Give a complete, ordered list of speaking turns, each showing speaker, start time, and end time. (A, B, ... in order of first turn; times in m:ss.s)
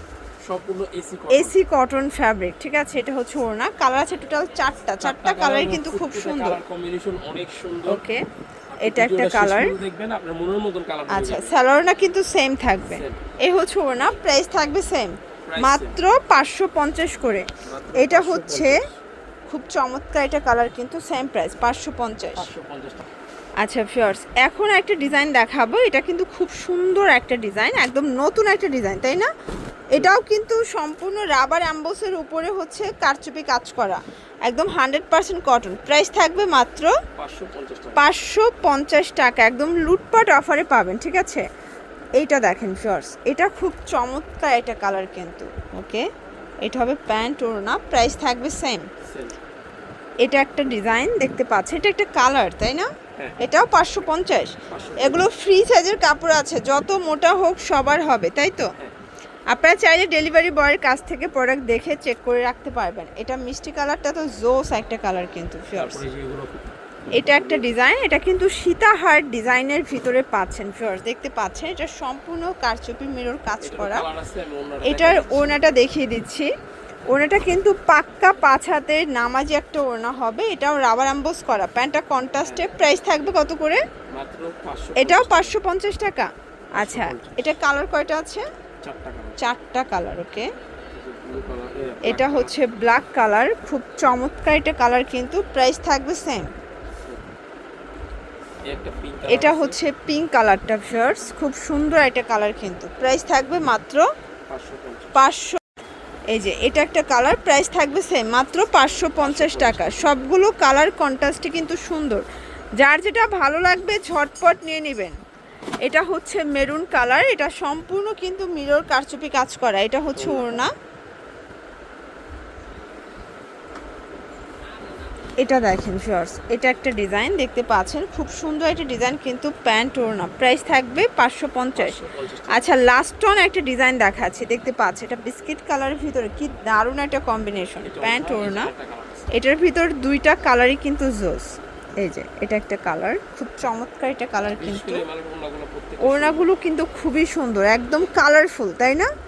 0:00.4-0:01.6 A
0:01.3-0:06.6 B
0:05.0-0:08.0 A
0:07.9-0:08.2 B
0:08.7-0:11.6 A
0:08.8-0:09.8 B
0:11.1-0:18.8 B
0:12.9-0:13.2 A
0:15.4-0:16.0 A
0:17.6-0:19.0 A
0:19.5-0:22.5 B
0:22.4-0:23.1 A
0:23.6-0:29.3 B
0:29.9-0:36.9 B
0:29.9-0:30.2 A
0:37.2-0:38.1 A
0:38.0-0:41.4 B
0:42.2-0:46.1 B
0:46.6-0:48.9 B
0:49.0-0:49.4 A
0:50.2-0:52.9 B
0:53.4-0:58.7 B
0:54.7-0:55.3 A
0:59.5-1:06.0 B
1:05.7-1:06.7 A
1:07.2-1:14.1 B
1:07.3-1:07.7 A
1:13.6-1:15.7 A
1:14.8-1:16.5 B
1:17.1-1:23.8 B
1:22.4-1:22.7 A
1:24.1-1:25.6 A
1:25.0-1:28.5 B
1:26.8-1:27.5 A
1:28.8-1:29.4 A
1:29.4-1:30.5 B
1:30.9-1:32.5 A
1:32.0-1:36.5 B
1:38.7-1:39.8 A
1:39.2-1:44.1 B
1:44.5-1:45.1 A
1:45.2-1:45.6 B
1:46.3-1:52.2 B
1:49.2-1:50.2 A
1:52.8-1:55.2 B
1:55.8-2:00.7 B
2:00.1-2:00.6 A
2:05.4-2:12.0 B
2:11.8-2:12.6 A
2:12.5-2:18.7 B
2:17.8-2:19.3 A
2:19.3-2:25.0 B
2:24.5-2:26.5 A
2:26.0-2:29.1 B